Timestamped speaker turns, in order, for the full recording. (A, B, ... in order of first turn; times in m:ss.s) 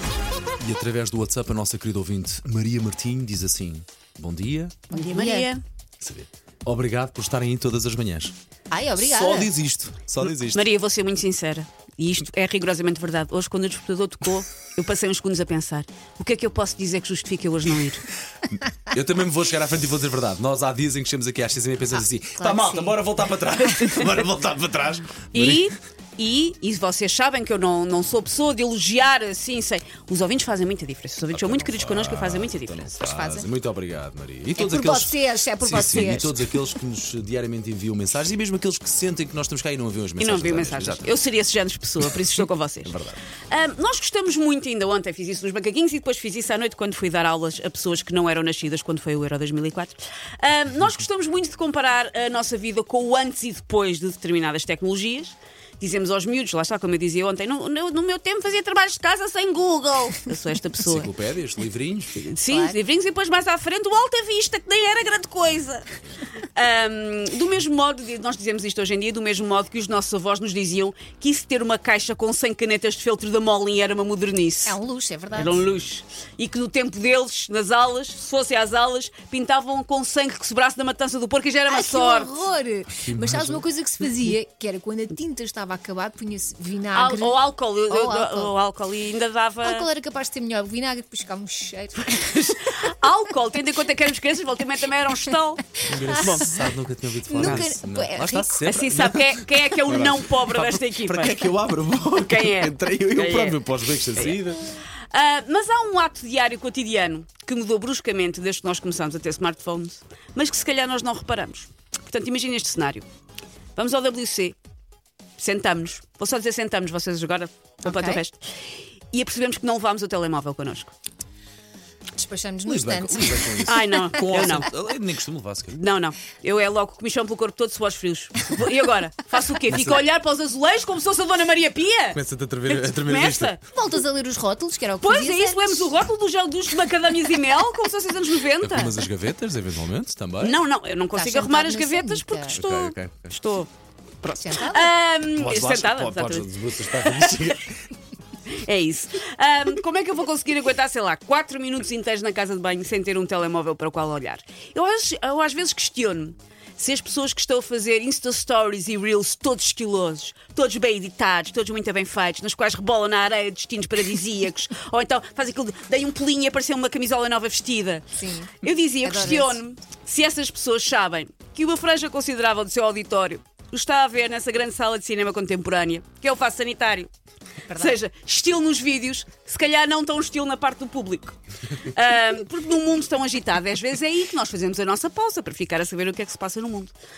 0:00.6-0:04.8 A
0:04.9-0:05.6 B
0:04.9-0:05.5 C
0:06.0-0:08.3 A
0:08.7-0:09.5 C
0:09.0-0:10.7 A
0:09.0-0:09.5 B
0:10.2-0:18.1 B
0:18.5-0:25.7 A
0:22.4-0:23.0 C
0:25.3-0:32.9 B
0:31.3-0:41.2 A
0:32.9-0:33.5 C
0:34.6-0:36.4 C
0:40.2-0:43.0 B
0:42.8-0:43.2 A
0:43.5-1:01.1 B
1:00.8-1:02.3 A
1:02.1-1:14.8 B
1:02.5-1:02.8 C
1:14.6-1:15.6 C
1:15.3-1:22.4 B
1:21.7-1:27.4 C
1:22.9-1:23.6 A
1:26.9-1:29.9 B
1:27.9-1:28.5 C
1:29.6-1:32.7 C
1:32.1-1:36.6 B
1:35.8-1:44.8 A
1:36.1-1:36.4 C
1:37.3-1:38.7 C
1:37.3-1:37.7 B
1:38.6-1:41.4 B
1:42.2-1:44.4 B
1:45.1-1:53.1 B
1:53.8-1:54.6 B
1:55.4-2:00.9 B
1:57.8-1:58.2 C
2:02.2-2:04.6 C
2:02.7-2:05.8 A
2:03.6-2:04.7 B
2:05.7-2:13.6 B
2:09.7-2:10.0 A
2:12.1-2:13.5 A
2:13.7-2:16.0 C
2:15.0-2:19.0 B
2:18.6-2:20.6 A
2:20.4-2:23.7 B
2:21.1-2:22.6 C
2:22.5-2:23.4 A
2:24.2-2:27.6 B
2:24.4-2:24.9 C
2:25.4-2:27.7 A
2:28.5-2:57.1 B
2:48.2-2:49.6 C
2:57.7-2:58.0 C
2:57.7-3:06.9 B